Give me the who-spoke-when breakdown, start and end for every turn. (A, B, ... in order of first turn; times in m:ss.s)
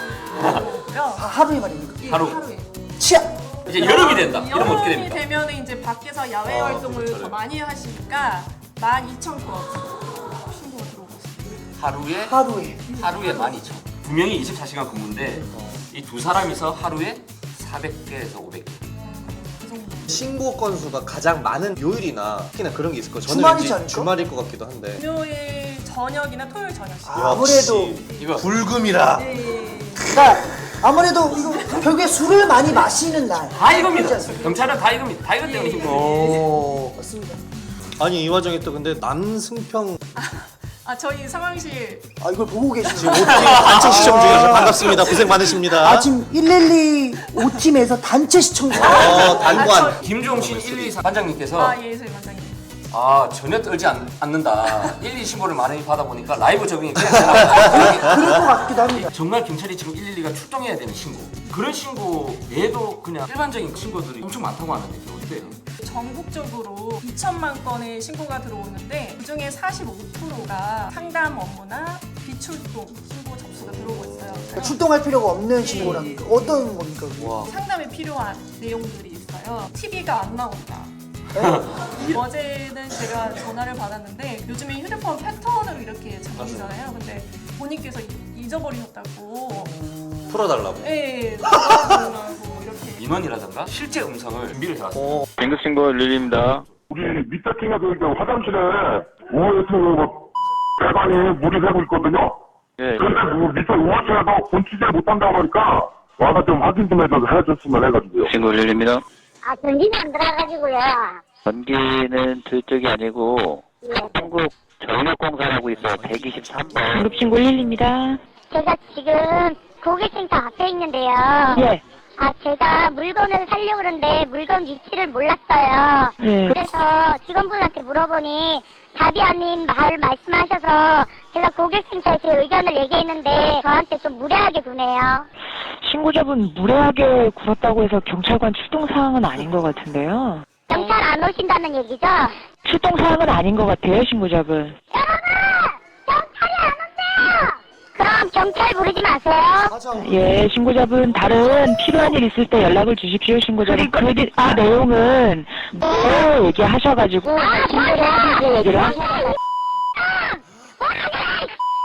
0:00.4-0:00.6 A
0:00.4-0:01.3 B
0:01.2-0:02.0 C
0:02.0-0:02.8 B
0:02.1-0:02.4 A
0:03.0-0:03.4 C
0:03.6-0:05.2 A
0:03.7-0:11.6 B
0:06.5-0:07.2 D
0:11.8-0:12.4 A
0:12.2-0:12.8 C
0:12.9-0:13.6 B
0:12.9-0:18.9 A
0:15.5-0:15.8 D
0:19.0-0:20.2 B
0:20.1-0:25.0 D
0:23.2-0:24.1 C
0:24.9-0:27.4 B
0:27.0-0:28.0 C
0:27.1-0:29.3 D
0:27.8-0:28.5 A
0:28.0-0:28.4 B
0:29.1-0:30.2 B
0:30.0-0:34.4 C
0:31.2-0:32.8 B
0:33.5-0:36.5 A
0:33.7-0:36.5 B
0:35.8-0:36.9 D
0:36.9-0:37.4 C
0:37.5-0:37.8 B
0:37.9-0:40.0 D
0:40.2-0:42.2 B
0:42.2-0:49.6 C
0:42.8-0:43.3 B
0:43.0-0:46.1 D
0:43.3-0:44.6 A
0:44.9-0:45.6 B
0:47.2-0:47.6 B
0:48.7-0:51.8 A
0:48.8-0:51.0 D
0:48.9-0:50.2 B
0:51.5-0:52.6 B
0:52.9-1:05.6 A
0:57.5-0:59.1 C
1:05.2-1:14.8 B
1:13.6-1:14.5 D
1:14.5-1:17.4 C
1:15.6-1:16.7 B
1:17.4-1:20.9 B
1:21.8-1:29.8 B
1:26.4-1:26.8 D
1:29.5-1:30.3 C
1:30.3-1:31.8 D
1:30.8-1:33.1 B
1:33.0-1:35.2 A
1:34.9-1:35.2 D
1:35.4-1:36.7 E
1:36.9-1:40.3 F
1:40.8-1:42.4 F
1:42.8-1:43.1 E
1:43.0-1:48.3 F
1:48.2-1:49.0 E
1:49.4-1:51.2 G
1:51.4-1:57.0 E
1:53.8-1:54.2 G
1:55.8-1:57.1 D
1:56.9-1:58.2 H
1:58.5-2:01.6 G
2:01.5-2:01.8 H
2:02.2-2:15.3 G
2:06.2-2:06.6 H
2:15.8-2:20.4 H
2:20.7-2:22.4 G
2:22.6-2:24.8 H
2:24.9-2:29.8 G
2:29.6-2:31.5 C
2:29.9-2:37.6 H
2:37.3-2:39.3 G
2:38.5-2:39.0 H
2:40.0-2:41.5 G